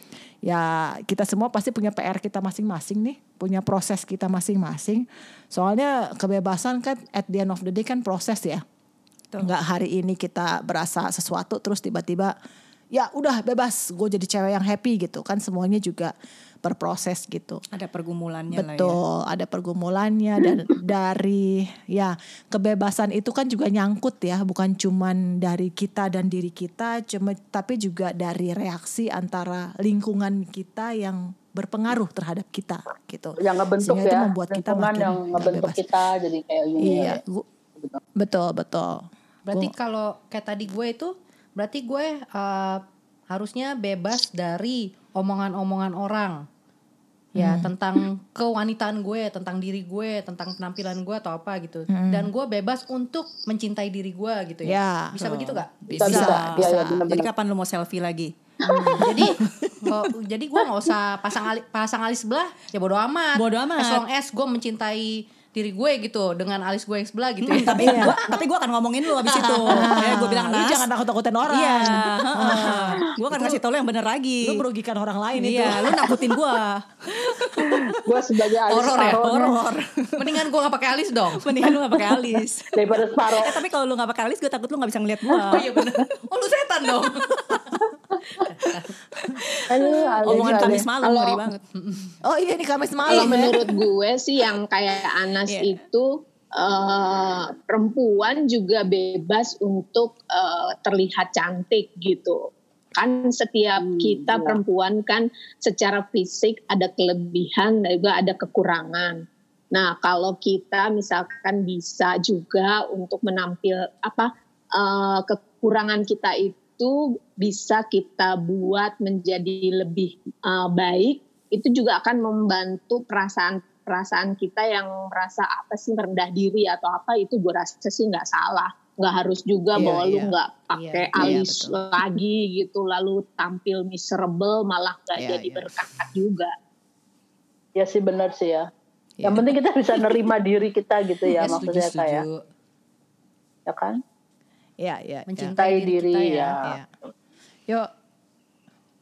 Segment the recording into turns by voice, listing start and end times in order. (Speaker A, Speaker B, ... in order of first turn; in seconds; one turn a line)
Speaker A: 0.4-8.6
Speaker A: 9.4-12.3
Speaker A: 12.9-16.1
Speaker A: 16.6-17.6
Speaker B: 17.7-19.0
Speaker A: 18.5-35.9
Speaker C: 33.4-37.2
Speaker A: 36.8-37.5
Speaker C: 37.8-38.0
Speaker A: 38.2-39.7
Speaker D: 39.5-46.5
Speaker D: 47.4-56.6
Speaker A: 47.4-47.7
Speaker A: 51.9-52.3
Speaker A: 54.6-55.2
Speaker B: 55.2-58.3
Speaker A: 55.8-57.0
Speaker C: 56.0-57.3
Speaker C: 58.6-59.1
Speaker D: 58.9-68.3
Speaker B: 63.4-64.0
Speaker B: 67.4-70.9
Speaker A: 67.7-68.2
Speaker D: 69.2-69.8
Speaker A: 69.7-73.6
Speaker B: 71.5-74.6
Speaker A: 74.4-76.3
Speaker B: 75.4-78.0
Speaker C: 77.9-79.6
Speaker D: 78.7-79.4
Speaker B: 78.9-80.0
Speaker D: 80.2-81.6
Speaker B: 81.3-85.8
Speaker C: 82.8-83.6
Speaker C: 85.3-86.0
Speaker D: 85.5-87.8
Speaker C: 88.1-88.5
Speaker D: 88.4-88.9
Speaker B: 89.3-91.6
Speaker C: 89.7-91.4
Speaker A: 90.3-90.9
Speaker D: 91.8-92.1
Speaker A: 92.2-93.6
Speaker E: 93.1-102.4
Speaker E: 102.9-109.2
Speaker C: 103.8-104.6
Speaker E: 109.7-136.5
Speaker A: 129.8-131.9
Speaker A: 135.2-135.7
Speaker C: 137.8-138.7
Speaker A: 139.2-139.6
Speaker C: 139.2-142.2
Speaker D: 141.4-142.4
Speaker C: 143.7-144.0
Speaker A: 144.8-145.5
Speaker D: 145.3-146.6
Speaker C: 145.6-146.8